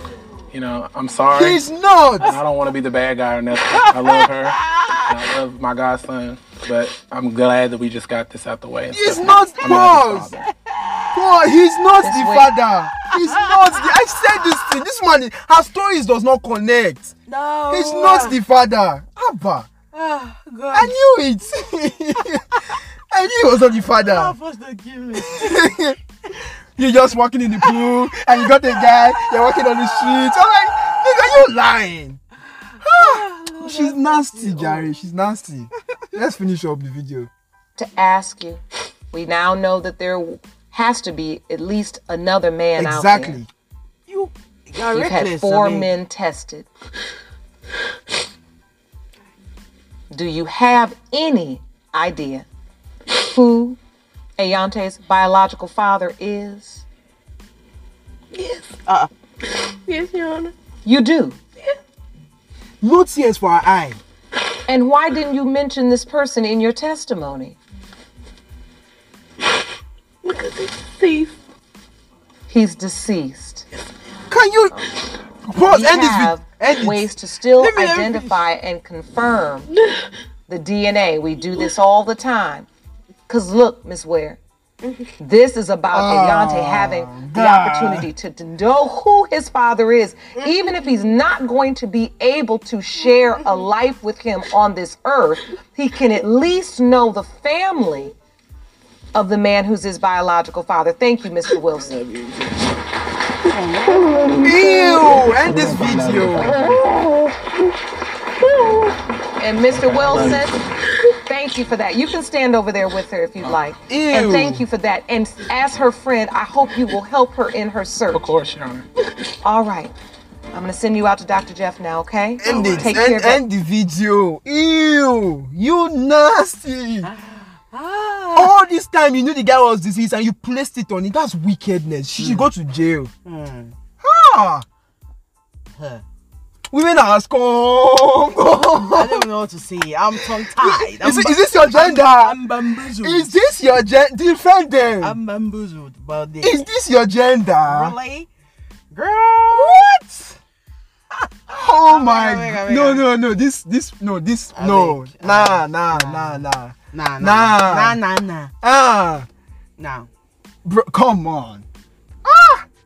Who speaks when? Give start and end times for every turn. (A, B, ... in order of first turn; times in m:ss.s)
0:00.5-0:01.6 A
0:01.3-0:02.4 B
0:02.2-0:10.5 A
0:03.6-0:05.1 C
0:08.9-0:10.3 B
0:10.6-0:11.2 C
0:11.1-0:17.1 B
0:12.0-0:12.5 D
0:13.0-0:14.7 C
0:17.3-0:18.4 C
0:17.7-0:19.7 B
0:19.9-0:20.9 C
0:20.7-0:22.6 B
0:23.1-0:24.3 B
0:24.0-0:25.6 C
0:25.2-0:32.2 B
0:27.6-0:30.3 C
0:32.7-0:34.9 C
0:32.8-0:37.3 B
0:37.8-0:38.6 D
0:39.1-0:43.4 D
0:42.8-0:43.5 B
0:44.1-0:45.9 C
0:44.9-0:46.7 D
0:50.1-0:52.4 D
0:53.1-0:53.8 D
0:54.4-0:56.8 D
0:58.4-0:58.7 E
0:58.8-0:59.1 C
0:59.7-1:00.5 E
1:00.8-1:01.4 D
1:02.8-1:04.0 B
1:04.7-1:07.6 D
1:10.2-1:11.4 E
1:12.5-1:13.6 D
1:14.3-1:14.9 B
1:15.4-1:17.1 B
1:15.6-1:19.7 D
1:17.6-1:18.4 C
1:20.5-1:22.7 D
1:23.3-1:24.4 D
1:25.2-1:38.1 D
1:25.9-1:28.1 B
1:39.1-1:42.0 D
1:43.5-1:44.4 C
1:44.4-1:46.6 B
1:45.4-1:46.9 A
1:49.4-1:58.2 D
1:49.7-1:50.4 A
1:53.9-1:54.6 B
1:58.1-1:58.9 A
1:59.4-1:59.9 D
2:00.5-2:03.4 D
2:02.4-2:07.1 B
2:02.5-2:02.8 A
2:07.0-2:08.5 C
2:08.3-2:13.1 B
2:12.2-2:12.5 C
2:13.2-2:13.7 C
2:14.0-2:14.6 B
2:15.7-2:16.0 C
2:16.7-2:19.2 B
2:18.9-2:23.3 C
2:20.2-2:25.2 B
2:25.0-2:26.6 C
2:26.4-2:28.0 B
2:27.7-2:28.3 C
2:28.9-2:29.8 C
2:29.5-2:30.4 B
2:31.2-2:33.1 C
2:31.5-2:38.0 B
2:34.5-2:38.5 C
2:38.6-2:39.3 B
2:39.8-2:40.1 C
2:40.6-2:41.6 B
2:42.2-2:42.6 B